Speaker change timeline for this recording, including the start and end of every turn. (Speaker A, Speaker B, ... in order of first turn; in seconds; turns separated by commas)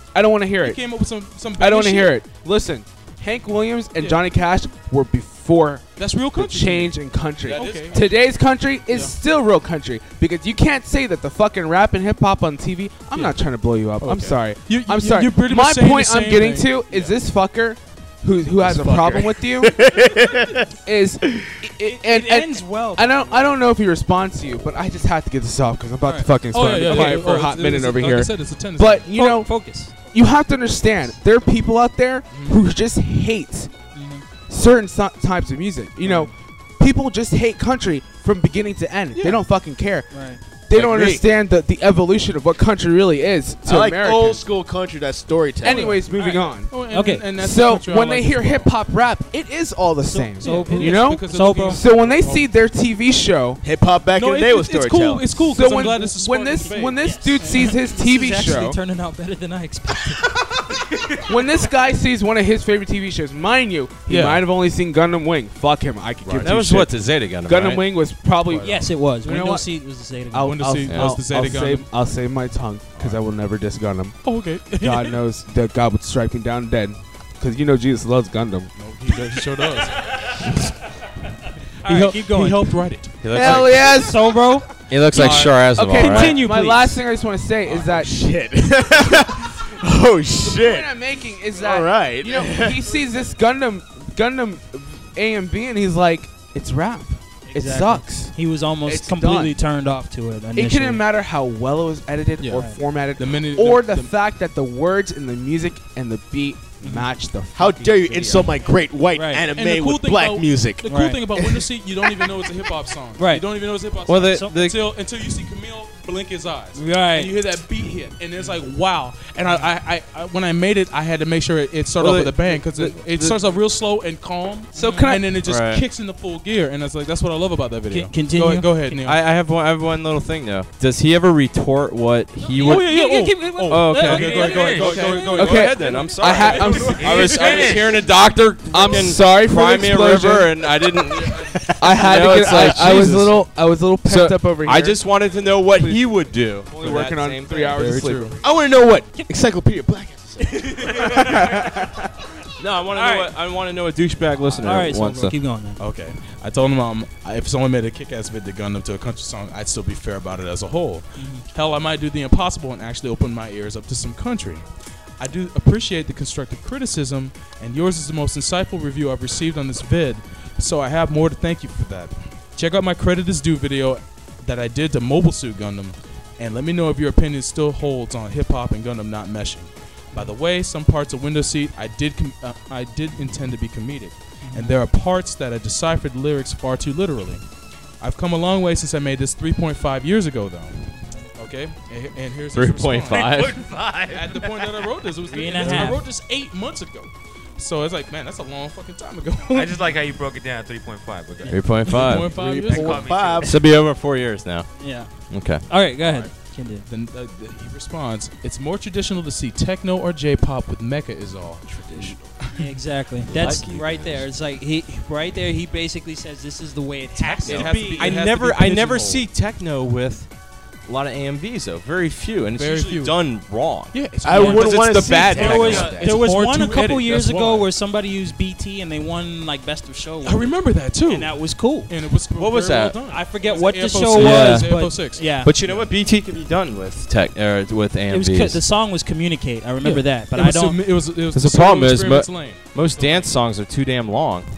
Speaker A: 0.1-0.8, Speaker B: 0.6-2.2, Speaker A: 1.6-19.8, Speaker B: 4.0-4.2, Speaker B: 6.0-8.1, Speaker C: 7.5-8.0, Speaker B: 8.9-9.1, Speaker B: 14.0-17.1, Speaker D: 18.6-20.7, Speaker A: 20.9-29.6, Speaker D: 21.2-21.5, Speaker E: 21.8-23.4, Speaker B: 26.5-29.1, Speaker E: 29.1-29.9, Speaker A: 30.1-33.7, Speaker B: 32.3-32.6, Speaker E: 33.9-34.2, Speaker A: 34.5-40.1, Speaker E: 36.0-36.3, Speaker B: 39.1-39.4, Speaker E: 40.1-40.4, Speaker A: 40.7-44.4, Speaker D: 40.7-41.2, Speaker D: 43.6-45.9, Speaker A: 45.6-46.7, Speaker B: 45.6-48.7, Speaker E: 46.9-47.2, Speaker A: 47.3-53.6, Speaker E: 50.0-51.8, Speaker B: 50.4-52.5, Speaker D: 53.6-55.4, Speaker B: 54.1-57.7, Speaker A: 55.5-58.8, Speaker E: 56.6-60.3, Speaker A: 61.3-69.7, Speaker B: 64.1-64.5, Speaker B: 66.2-66.5, Speaker C: 66.4-67.8, Speaker B: 68.5-68.9, Speaker E: 68.6-70.6, Speaker A: 70.3-74.2, Speaker B: 70.4-71.9, Speaker C: 70.9-71.2, Speaker B: 74.2-75.2, Speaker A: 74.7-78.7, Speaker B: 78.8-80.6, Speaker E: 81.8-82.7, Speaker B: 81.8-83.6, Speaker C: 83.2-84.0, Speaker A: 83.3-84.3, Speaker E: 83.4-86.9, Speaker C: 84.9-86.4, Speaker A: 85.1-88.2, Speaker B: 85.2-85.6, Speaker D: 87.7-90.9, Speaker A: 90.4-99.6, Speaker D: 91.5-92.8, Speaker E: 97.5-101.0, Speaker A: 100.5-108.7, Speaker B: 102.4-102.6, Speaker E: 102.5-102.8, Speaker B: 103.2-104.1, Speaker E: 106.8-107.1, Speaker D: 107.5-110.8, Speaker E: 109.1-109.5, Speaker B: 109.5-129.2, Speaker E: 110.8-111.2, Speaker E: 113.2-113.4, Speaker C: 114.1-114.8, Speaker E: 116.8-117.3, Speaker C: 122.0-123.4, Speaker E: 124.8-125.1, Speaker A: 124.8-125.3, Speaker C: 125.4-125.8, Speaker E: 127.9-128.9, Speaker C: 129.0-132.9, Speaker E: 132.5-135.4, Speaker B: 132.5-137.9, Speaker C: 133.7-143.5, Speaker F: 134.3-135.2, Speaker A: 135.3-137.5, Speaker F: 136.8-138.0, Speaker A: 138.7-140.7, Speaker A: 141.8-145.0, Speaker C: 144.0-147.9, Speaker A: 145.7-146.1, Speaker A: 146.7-148.4, Speaker B: 147.7-148.4, Speaker D: 148.4-151.5, Speaker E: 150.7-151.3, Speaker A: 151.2-151.8, Speaker C: 152.6-155.3, Speaker E: 152.9-153.3, Speaker E: 154.6-155.8, Speaker B: 155.8-164.6, Speaker E: 161.2-161.4, Speaker B: 165.2-187.4, Speaker E: 184.4-184.8, Speaker B: 188.0-193.5, Speaker C: 192.5-193.6, Speaker F: 193.1-194.7, Speaker B: 194.1-200.0, Speaker E: 195.3-196.0, Speaker F: 199.5-203.5, Speaker C: 201.5-202.4, Speaker B: 201.8-203.1, Speaker D: 202.3-203.6, Speaker C: 203.4-204.7, Speaker E: 204.8-206.8, Speaker C: 205.3-205.6, Speaker B: 206.0-206.3, Speaker B: 206.9-212.7, Speaker E: 212.6-218.2, Speaker C: 213.3-214.3, Speaker B: 217.2-219.3, Speaker C: 217.4-220.3, Speaker C: 220.8-225.9, Speaker B: 222.5-223.3, Speaker B: 223.9-227.7, Speaker D: 224.2-226.1, Speaker E: 225.4-230.5, Speaker F: 225.4-226.0, Speaker B: 230.2-235.9, Speaker E: 231.1-231.9, Speaker C: 232.3-233.0, Speaker E: 233.1-235.5, Speaker C: 234.1-238.6, Speaker E: 238.1-240.8, Speaker B: 239.8-243.3, Speaker C: 241.3-244.5